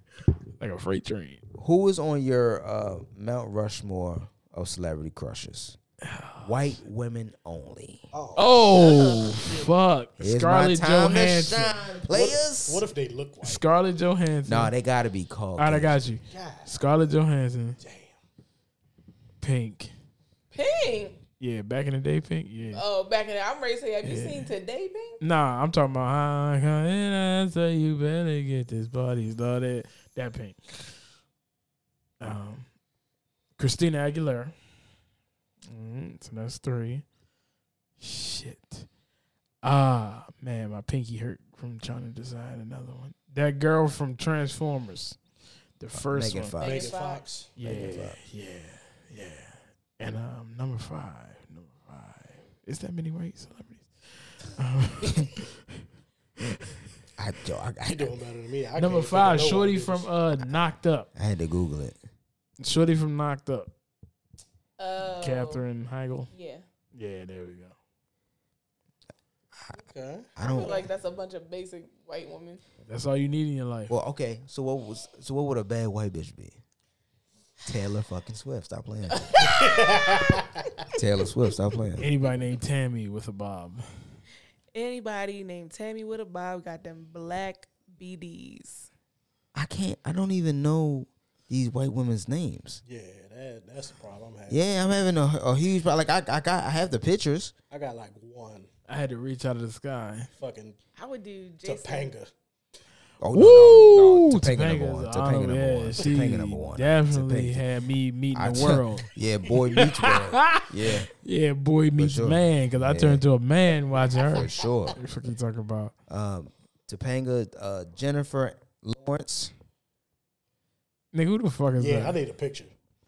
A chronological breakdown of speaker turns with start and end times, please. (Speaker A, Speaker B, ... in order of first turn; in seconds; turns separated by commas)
Speaker A: 0.6-1.4, Speaker B: 1.6-5.8, Speaker A: 6.0-6.8, Speaker B: 6.4-8.1, Speaker C: 8.1-8.7, Speaker A: 8.4-11.8, Speaker D: 8.8-9.3, Speaker C: 9.3-9.7, Speaker B: 10.2-12.9, Speaker C: 12.1-13.6, Speaker A: 13.4-14.7, Speaker B: 14.4-16.0, Speaker A: 15.6-17.8, Speaker C: 16.3-16.8, Speaker C: 17.8-18.2, Speaker A: 19.4-19.9, Speaker D: 20.5-21.2, Speaker A: 21.4-22.8, Speaker D: 22.7-25.2, Speaker A: 24.0-24.5, Speaker A: 25.2-30.9, Speaker A: 32.2-32.7, Speaker A: 33.6-34.5, Speaker A: 35.7-37.0, Speaker A: 38.0-38.9, Speaker A: 39.6-45.2, Speaker A: 45.8-46.6, Speaker B: 45.9-47.0, Speaker D: 46.6-47.2, Speaker C: 46.6-47.5, Speaker A: 47.6-55.5, Speaker B: 47.6-48.2, Speaker B: 57.2-58.2, Speaker C: 57.9-60.1, Speaker A: 58.8-61.1, Speaker B: 61.1-62.0, Speaker A: 62.6-63.7, Speaker D: 64.8-65.6, Speaker A: 65.0-66.3, Speaker D: 66.3-66.7, Speaker A: 66.9-67.8, Speaker C: 69.7-70.9, Speaker B: 70.4-70.9, Speaker D: 70.4-72.6, Speaker A: 72.8-74.0, Speaker B: 73.9-76.6, Speaker B: 77.7-79.5, Speaker C: 79.4-80.7, Speaker B: 81.0-82.1, Speaker A: 82.0-84.2, Speaker D: 84.7-88.9, Speaker B: 89.5-92.8, Speaker C: 92.8-94.7, Speaker B: 94.5-97.5, Speaker C: 97.7-98.7, Speaker A: 98.9-100.3, Speaker C: 100.4-100.8, Speaker D: 101.0-102.1, Speaker C: 101.6-102.3, Speaker B: 103.2-107.7, Speaker A: 103.3-109.1, Speaker B: 108.3-111.1, Speaker A: 109.7-115.9, Speaker B: 112.0-113.2, Speaker C: 113.9-114.9, Speaker B: 114.3-115.0, Speaker B: 116.1-119.5, Speaker A: 121.1-122.2, Speaker C: 121.8-122.7